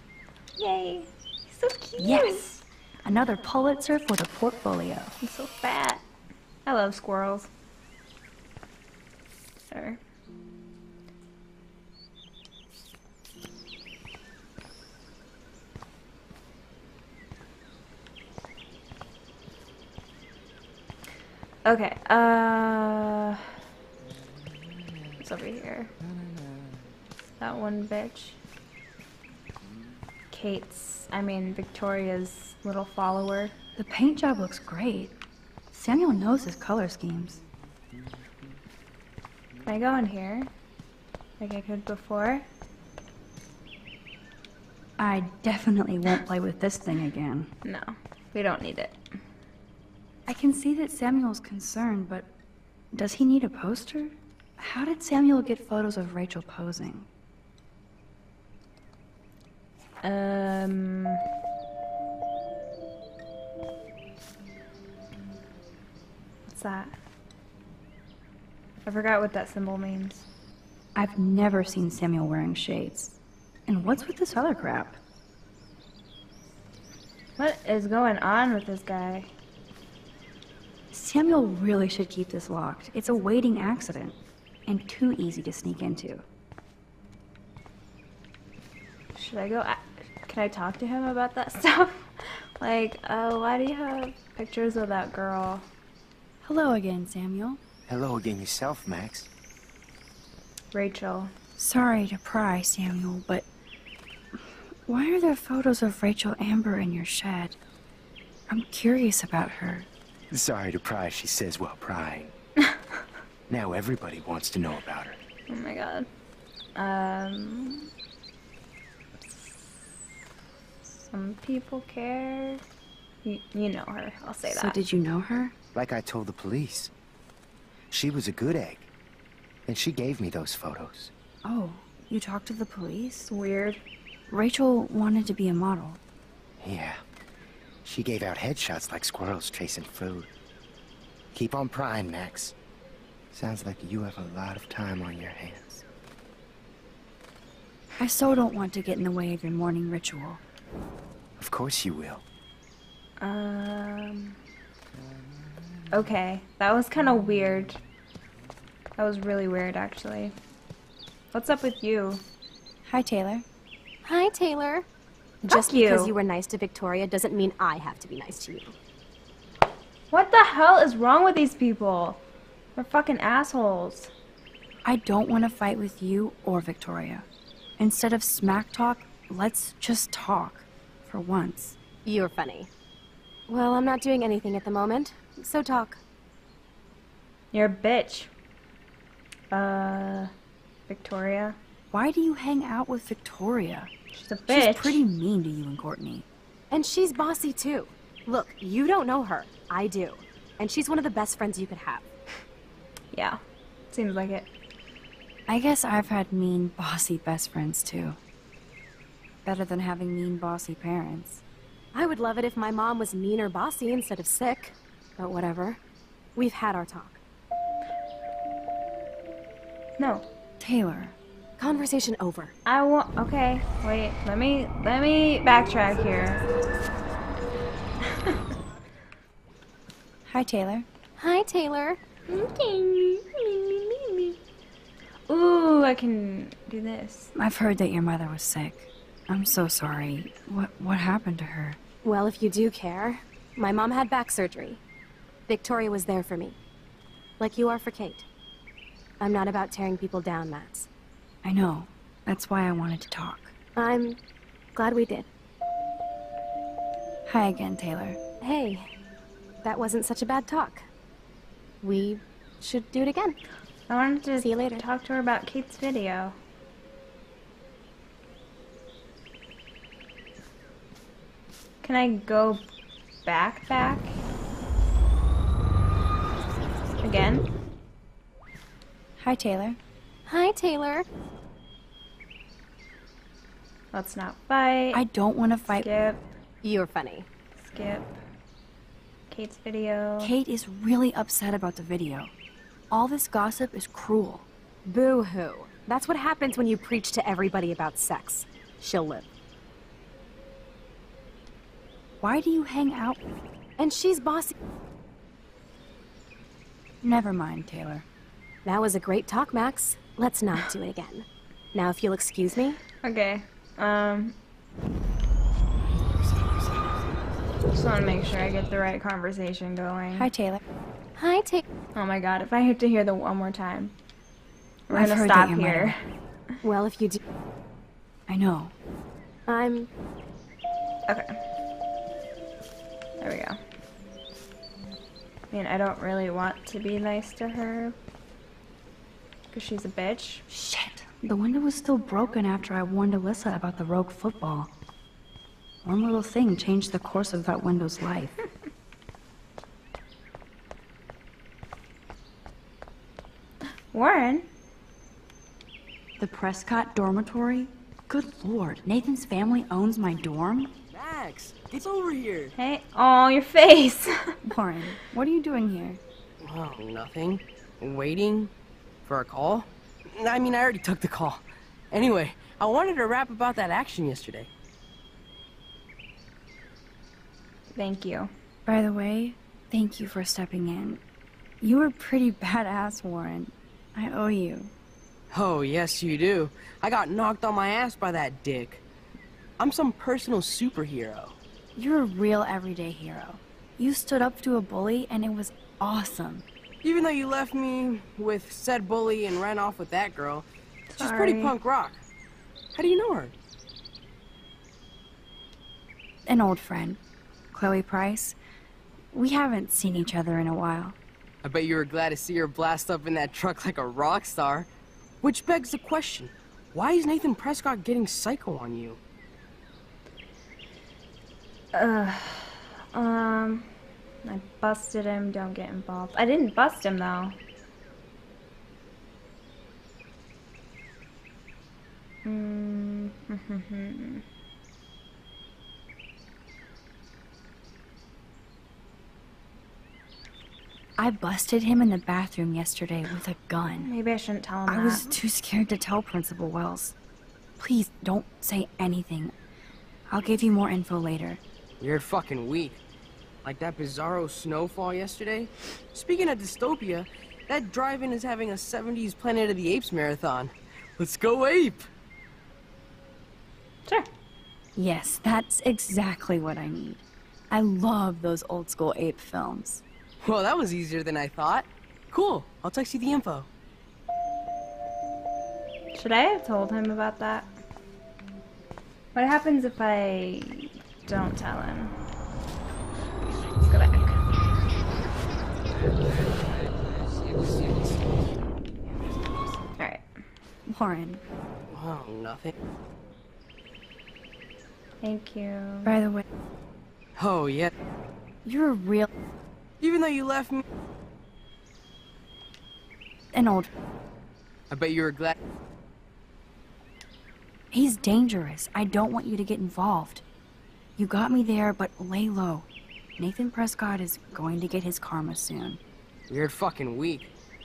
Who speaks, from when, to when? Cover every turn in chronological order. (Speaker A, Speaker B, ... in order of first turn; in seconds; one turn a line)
Speaker A: 0.6-2.5
Speaker B: 2.0-5.1
Speaker A: 5.2-6.0
Speaker A: 6.7-7.5
Speaker A: 9.7-10.0
Speaker A: 21.6-23.5
Speaker A: 25.2-25.9
Speaker A: 27.4-28.4
Speaker A: 30.3-33.5
Speaker B: 33.7-35.2
Speaker B: 35.7-37.4
Speaker A: 39.6-40.5
Speaker A: 41.4-42.4
Speaker B: 45.0-47.5
Speaker A: 47.6-49.0
Speaker B: 50.3-52.3
Speaker B: 52.9-57.1
Speaker A: 60.0-61.2
Speaker A: 66.5-66.9
Speaker A: 68.8-70.2
Speaker B: 70.9-73.2
Speaker B: 73.7-75.0
Speaker A: 77.4-79.3
Speaker B: 80.9-86.2
Speaker A: 89.1-95.7
Speaker B: 96.4-97.6
Speaker C: 97.9-99.3
Speaker A: 100.7-101.3
Speaker B: 101.6-103.5
Speaker B: 104.3-107.6
Speaker B: 108.5-109.9
Speaker C: 110.3-112.3
Speaker C: 113.5-115.2
Speaker A: 115.5-116.1
Speaker A: 116.7-117.9
Speaker A: 119.2-119.7
Speaker A: 121.0-122.6
Speaker A: 123.2-124.8
Speaker B: 124.4-125.5
Speaker C: 125.7-126.9
Speaker C: 127.9-128.9
Speaker C: 129.7-131.1
Speaker B: 131.4-133.3
Speaker A: 133.3-133.8
Speaker B: 134.3-136.0
Speaker C: 136.6-137.0
Speaker C: 137.8-140.3
Speaker C: 141.3-142.5
Speaker C: 143.3-145.8
Speaker B: 148.0-150.4
Speaker C: 151.4-152.2
Speaker A: 153.2-154.4
Speaker A: 155.9-157.8
Speaker A: 159.0-160.3
Speaker A: 161.3-162.2
Speaker B: 162.8-163.4
Speaker D: 164.0-164.8
Speaker A: 165.4-166.1
Speaker D: 165.5-168.7
Speaker A: 170.1-172.2
Speaker A: 172.8-174.1
Speaker B: 174.8-177.2
Speaker B: 177.8-181.8
Speaker D: 182.0-182.7
Speaker D: 183.5-186.0
Speaker A: 187.5-188.3
Speaker A: 189.5-190.3
Speaker A: 190.9-191.6
Speaker B: 191.9-193.9
Speaker A: 194.1-195.0
Speaker B: 194.5-196.2
Speaker D: 196.7-202.1
Speaker A: 203.1-203.4
Speaker A: 203.9-204.5
Speaker B: 205.5-208.2
Speaker B: 209.4-211.4
Speaker D: 211.9-215.8
Speaker D: 216.3-217.2
Speaker A: 220.0-220.2
Speaker B: 220.6-221.1
Speaker D: 221.6-222.5
Speaker A: 222.7-226.4
Speaker A: 228.1-228.4
Speaker B: 230.2-230.9
Speaker D: 231.2-232.0
Speaker A: 232.3-234.3
Speaker A: 235.3-237.3
Speaker B: 237.3-241.8
Speaker D: 242.0-244.8
Speaker D: 245.5-246.6
Speaker D: 247.4-248.2
Speaker D: 249.2-250.9
Speaker B: 251.4-253.5
Speaker D: 253.8-254.2
Speaker D: 254.7-255.3
Speaker B: 257.2-258.2
Speaker D: 258.4-258.9
Speaker D: 259.6-260.8
Speaker D: 261.8-263.4
Speaker A: 263.9-266.3
Speaker D: 264.4-264.8
Speaker A: 271.8-272.7
Speaker A: 273.2-274.2
Speaker A: 277.0-277.5
Speaker B: 279.2-279.8
Speaker D: 280.2-281.1
Speaker A: 283.9-285.0
Speaker B: 284.9-285.9
Speaker A: 285.7-286.3
Speaker D: 286.6-287.3
Speaker A: 287.6-288.2
Speaker A: 289.3-290.3
Speaker B: 290.2-292.3
Speaker B: 292.9-294.4
Speaker D: 294.9-299.3
Speaker B: 302.2-303.2
Speaker D: 303.8-304.5
Speaker B: 307.0-308.1
Speaker D: 308.6-312.8
Speaker A: 313.0-314.4
Speaker A: 317.7-320.3
Speaker B: 320.1-320.6
Speaker D: 321.1-321.6
Speaker A: 321.9-323.9
Speaker A: 324.9-326.0
Speaker B: 324.9-325.9
Speaker D: 326.6-327.2
Speaker B: 328.3-328.7
Speaker D: 329.5-329.9
Speaker A: 331.1-331.4
Speaker A: 333.2-333.6
Speaker A: 335.5-337.9
Speaker A: 339.5-340.4
Speaker B: 340.5-344.7
Speaker B: 345.8-348.3
Speaker A: 353.9-354.5
Speaker B: 356.2-360.7
Speaker E: 360.9-362.5
Speaker A: 362.6-364.4
Speaker B: 364.4-366.0
Speaker E: 366.4-368.5
Speaker E: 369.0-374.5
Speaker A: 377.7-378.3
Speaker B: 378.6-381.0
Speaker B: 381.6-384.7
Speaker E: 385.3-388.8
Speaker E: 389.6-391.4
Speaker B: 391.8-396.4
Speaker E: 396.8-400.4
Speaker A: 400.9-401.5
Speaker E: 401.0-402.0
Speaker E: 402.7-403.3
Speaker B: 406.2-407.0
Speaker B: 407.5-408.4
Speaker B: 409.1-411.0
Speaker E: 411.4-414.7
Speaker E: 415.2-419.0
Speaker A: 421.7-423.7
Speaker A: 424.2-427.3
Speaker A: 432.2-434.2
Speaker B: 441.0-443.9
Speaker A: 443.8-445.1
Speaker B: 444.7-446.9
Speaker B: 447.6-449.3
Speaker B: 450.1-451.4
Speaker E: 451.8-452.8
Speaker E: 453.4-461.8
Speaker B: 464.8-469.8
Speaker E: 470.2-473.5
Speaker A: 475.9-477.5
Speaker A: 479.1-482.0
Speaker A: 483.6-484.2
Speaker A: 489.8-490.0
Speaker B: 490.7-491.2
Speaker E: 491.7-492.5
Speaker A: 495.0-495.9
Speaker B: 495.8-496.2
Speaker E: 497.1-497.7
Speaker B: 498.4-499.1
Speaker E: 499.8-500.6
Speaker B: 503.3-503.7
Speaker E: 504.7-505.4
Speaker B: 507.7-510.2
Speaker B: 511.0-515.8
Speaker E: 516.3-517.3